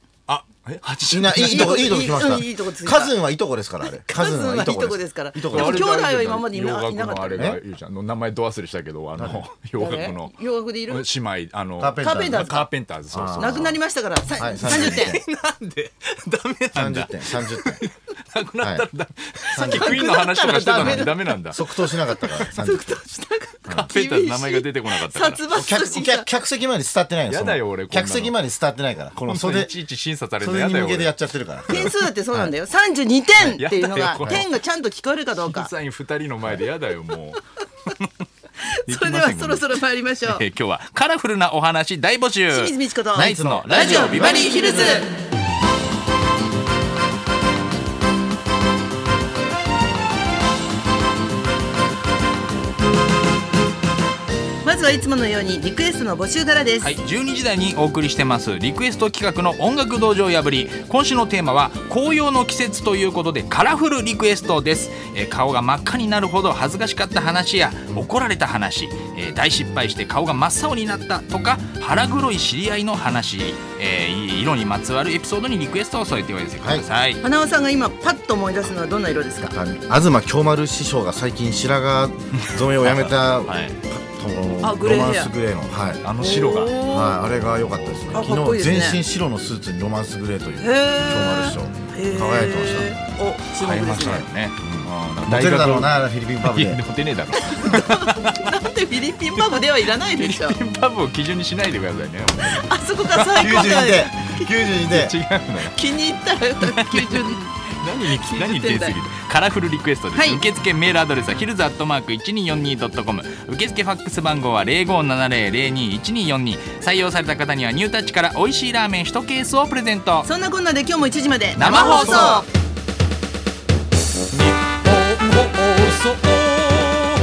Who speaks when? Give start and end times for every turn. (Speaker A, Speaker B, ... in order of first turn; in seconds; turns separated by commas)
Speaker A: 0.3-2.2, Speaker B: 1.1-5.9, Speaker C: 1.4-3.2, Speaker C: 3.8-7.5, Speaker A: 5.5-13.8, Speaker B: 7.3-7.6, Speaker B: 9.2-9.4, Speaker C: 9.8-11.1, Speaker B: 11.8-12.5, Speaker C: 12.0-12.7, Speaker B: 13.1-13.8, Speaker C: 13.4-15.2, Speaker B: 14.4-15.2, Speaker A: 14.6-21.6, Speaker B: 16.8-17.8, Speaker B: 18.6-18.9, Speaker C: 19.5-26.3, Speaker B: 19.5-20.2, Speaker B: 20.8-22.9, Speaker A: 23.7-25.4, Speaker B: 25.5-29.7, Speaker A: 27.3-28.4, Speaker A: 29.2-31.2, Speaker B: 30.4-32.5, Speaker C: 31.7-35.7, Speaker A: 33.4-34.5, Speaker A: 35.4-38.1, Speaker C: 38.6-40.5, Speaker A: 38.9-45.0, Speaker C: 42.5-45.1, Speaker B: 43.1-45.1, Speaker C: 54.6-56.9, Speaker A: 56.8-77.2, Speaker B: 76.6-76.9, Speaker C: 77.2-79.5, Speaker B: 79.5-86.0, Speaker A: 82.5-83.8, Speaker C: 84.6-85.3, Speaker A: 86.0-86.8, Speaker C: 86.2-87.2, Speaker B: 86.8-93.0, Speaker A: 87.5-88.3, Speaker C: 88.1-89.0, Speaker C: 90.6-94.3, Speaker A: 93.5-98.5, Speaker B: 94.6-96.8, Speaker C: 97.3-100.6, Speaker A: 99.4-105.9, Speaker C: 102.4-104.3, Speaker B: 103.4-105.2, Speaker C: 105.6-109.0, Speaker A: 106.6-120.3, Speaker C: 110.1-110.4, Speaker C: 120.2-122.5, Speaker A: 121.6-122.5, Speaker B: 121.7-122.4, Speaker A: 124.3-127.0